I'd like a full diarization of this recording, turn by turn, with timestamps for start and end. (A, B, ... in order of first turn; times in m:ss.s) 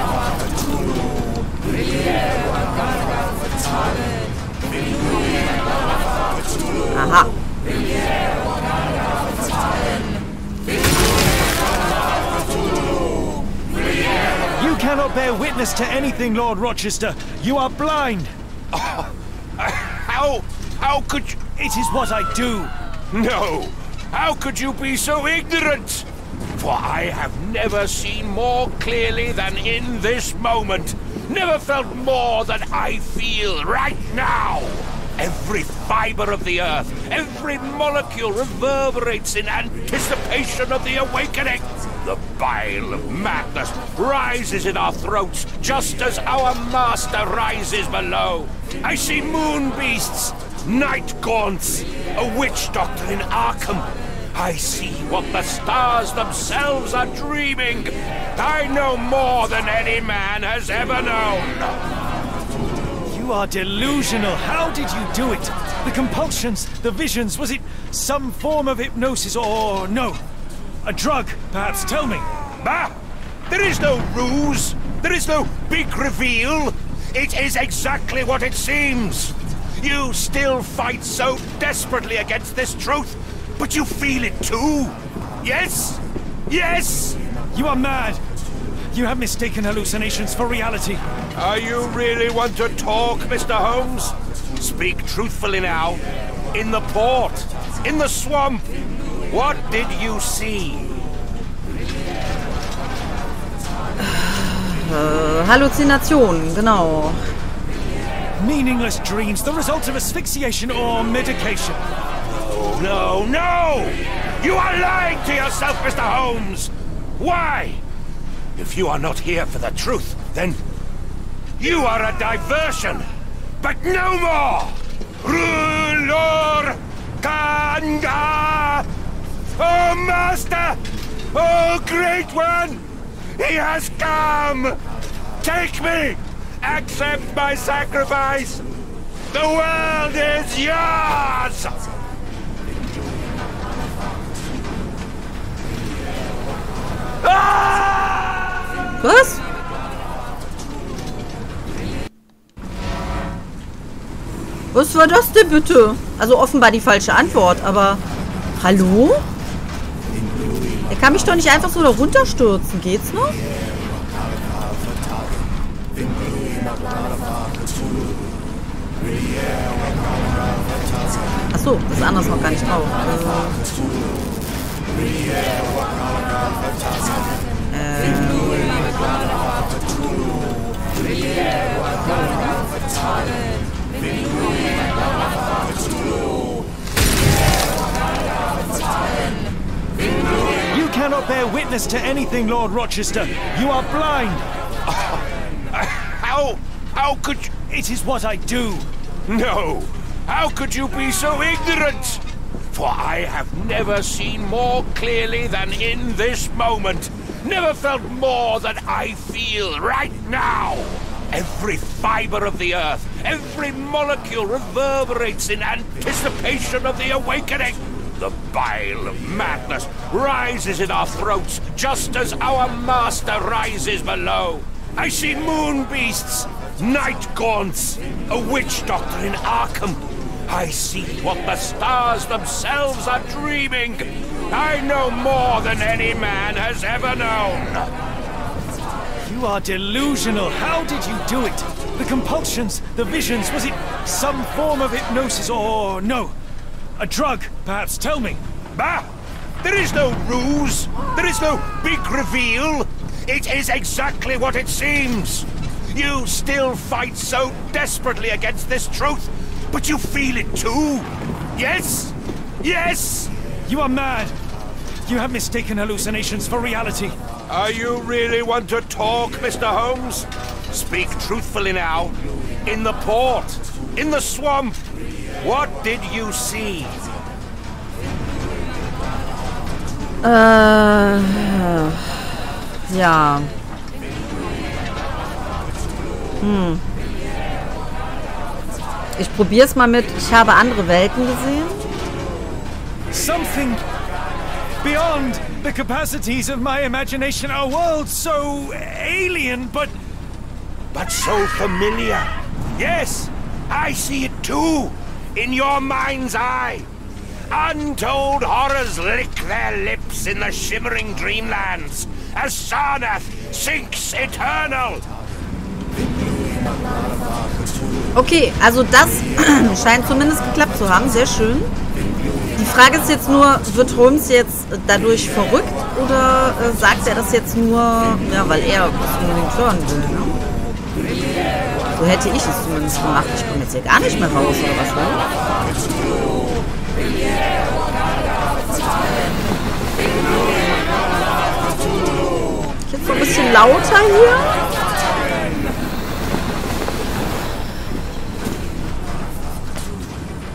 0:06.9-0:07.3 A
0:14.6-0:18.3 B
0:18.7-0:21.5 C
0:21.6-0:22.7 B
0:23.1-1:01.8 C
1:03.1-1:10.2 B
1:10.8-1:12.3 B
1:12.6-1:13.0 C
1:13.5-1:27.2 C
1:27.5-1:28.2 B
1:28.9-1:31.0 B
1:31.4-1:36.0 C
1:36.5-1:38.7 C
1:39.3-1:41.1 C
1:44.0-1:47.2 A
1:48.4-1:51.8 B
1:52.2-1:57.8 C
1:58.6-2:00.6 C
2:01.6-2:08.9 C
2:09.6-2:10.8 C
2:11.3-2:12.8 C
2:13.4-2:14.8 C
2:15.4-2:18.6 C
2:19.3-2:21.8 C
2:27.2-2:28.6 C
2:29.0-2:29.4 A
2:34.7-2:38.0 A
2:38.6-2:39.2 A
2:40.9-2:43.4 A
2:51.5-2:53.6 A
2:57.7-2:58.9 A
3:02.0-3:02.6 A
3:10.7-3:14.4 B
3:14.9-3:17.6 C
3:17.7-3:18.9 B
3:19.3-3:57.9 C
3:59.2-4:06.4 B
4:07.0-4:08.4 B
4:08.7-4:09.1 C
4:09.6-4:23.3 C
4:23.7-4:24.4 B
4:25.1-4:27.2 B
4:27.5-4:32.2 C
4:32.7-4:34.8 C
4:35.4-4:37.0 C
4:40.2-4:43.5 A
4:46.4-4:46.8 A
4:49.2-4:51.9 A
4:53.1-4:53.8 B
4:54.8-5:00.0 B
5:00.9-5:06.9 C
5:07.5-5:15.0 C
5:18.2-5:21.7 A
5:22.6-5:30.4 A
5:31.9-5:35.2 A
5:42.9-5:44.6 A